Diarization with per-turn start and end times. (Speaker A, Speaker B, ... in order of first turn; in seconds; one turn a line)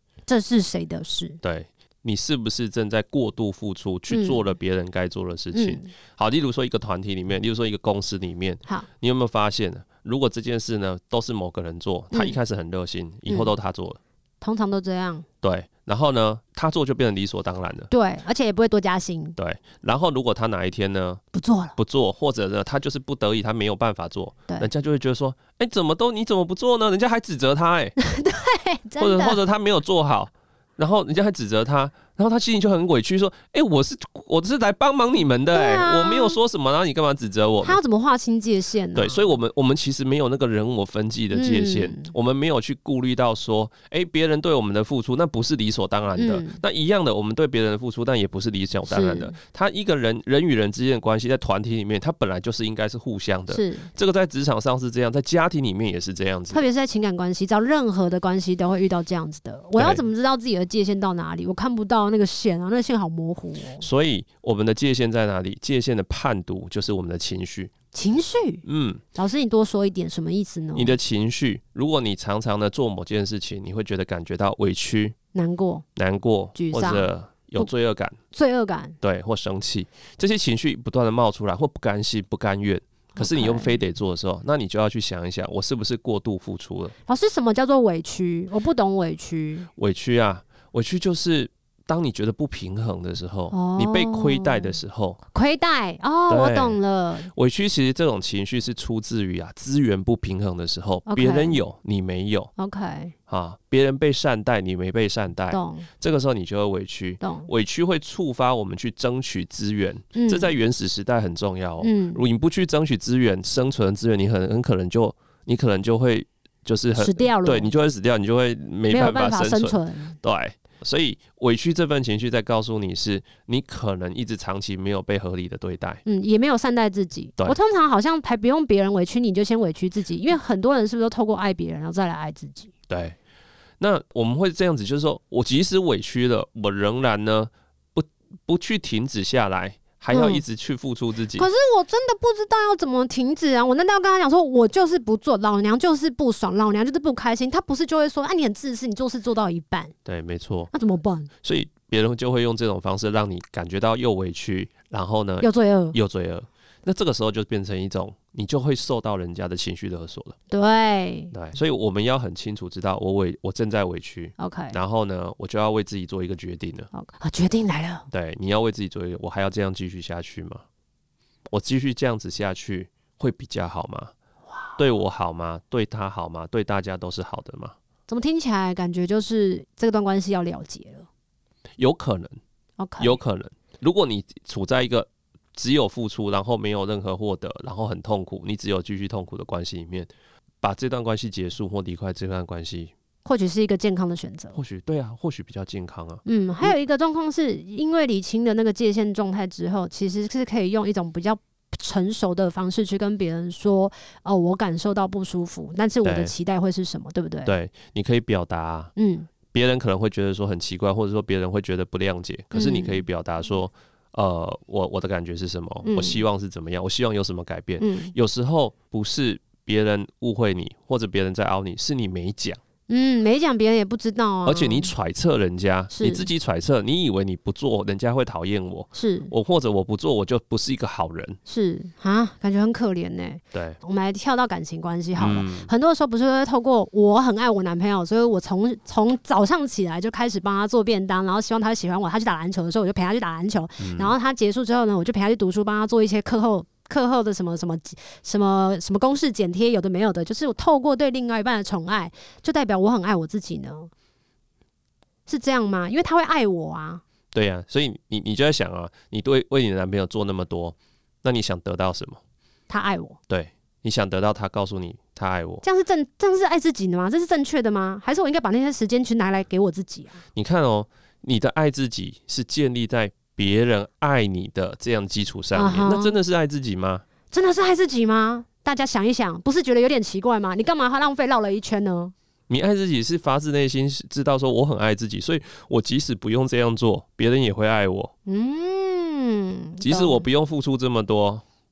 Speaker A: 0.3-1.4
Speaker B: 1.4-14.0
Speaker A: 4.1-4.4
Speaker A: 5.5-5.9
Speaker A: 12.1-12.4
Speaker A: 13.3-13.5
Speaker A: 14.4-15.3
Speaker B: 15.4-17.9
Speaker A: 17.9-19.4
Speaker B: 19.4-21.2
Speaker A: 21.3-21.8
Speaker B: 21.8-27.9
Speaker A: 28.0-29.4
Speaker B: 29.0-37.8
Speaker A: 35.5-36.4
Speaker A: 37.6-39.4
Speaker B: 38.9-56.7
Speaker A: 41.3-42.1
Speaker A: 46.2-46.6
Speaker A: 48.9-49.4
Speaker A: 53.5-53.9
Speaker A: 56.5-63.8
Speaker B: 59.8-60.1
Speaker B: 63.8-67.7
Speaker A: 67.9-68.6
Speaker B: 68.7-69.0
Speaker A: 69.2-71.0
Speaker B: 70.8-75.2
Speaker A: 75.3-75.8
Speaker B: 76.0-78.2
Speaker A: 76.5-77.7
Speaker A: 78.3-79.0
Speaker B: 79.0-86.9
Speaker A: 83.2-83.8
Speaker A: 87.1-89.7
Speaker B: 89.8-95.2
Speaker A: 93.5-94.8
Speaker A: 95.3-97.3
Speaker B: 96.3-96.8
Speaker B: 97.3-102.5
Speaker A: 101.1-101.6
Speaker A: 102.6-103.1
Speaker B: 103.3-126.0
Speaker A: 105.5-105.9
Speaker A: 107.2-107.5
Speaker A: 110.2-110.5
Speaker A: 111.8-112.2
Speaker A: 117.0-117.7
Speaker A: 118.9-120.2
Speaker A: 126.0-132.7
Speaker B: 132.9-133.2
Speaker B: 133.8-141.5
Speaker A: 140.1-140.4
Speaker A: 141.3-149.9
Speaker B: 150.1-150.7
Speaker A: 150.7-151.3
Speaker B: 151.4-160.3
Speaker A: 155.4-156.0
Speaker A: 160.5-161.3
Speaker B: 161.3-166.9
Speaker A: 164.4-164.8
Speaker A: 166.9-168.1
Speaker B: 168.1-170.6
Speaker B: 171.5-174.1
Speaker A: 174.5-174.8
Speaker B: 174.8-177.7
Speaker A: 178.1-181.1
Speaker B: 181.8-182.4
Speaker A: 182.8-183.2
Speaker B: 183.0-190.1
Speaker B: 190.6-192.9
Speaker A: 193.2-194.6
Speaker B: 194.5-196.7
Speaker A: 196.3-207.6
Speaker B: 206.0-206.3
Speaker B: 207.5-208.9
Speaker A: 209.0-209.3
Speaker B: 209.5-222.6
Speaker A: 212.5-213.0
Speaker A: 215.8-216.2
Speaker A: 217.8-218.1
Speaker A: 222.9-224.9
Speaker B: 224.5-231.4
Speaker A: 225.9-226.3
Speaker A: 229.0-229.3
Speaker A: 231.5-253.9
Speaker B: 233.5-233.8
Speaker B: 235.2-235.7
Speaker B: 243.8-244.1
Speaker A: 255.3-257.0
Speaker B: 257.3-262.2
Speaker A: 262.7-263.2
Speaker B: 263.3-265.6
Speaker A: 265.6-270.2
Speaker B: 270.4-277.0
Speaker A: 275.5-276.2
Speaker A: 277.3-282.1
Speaker B: 282.5-288.1
Speaker A: 288.2-290.3
Speaker B: 289.8-291.4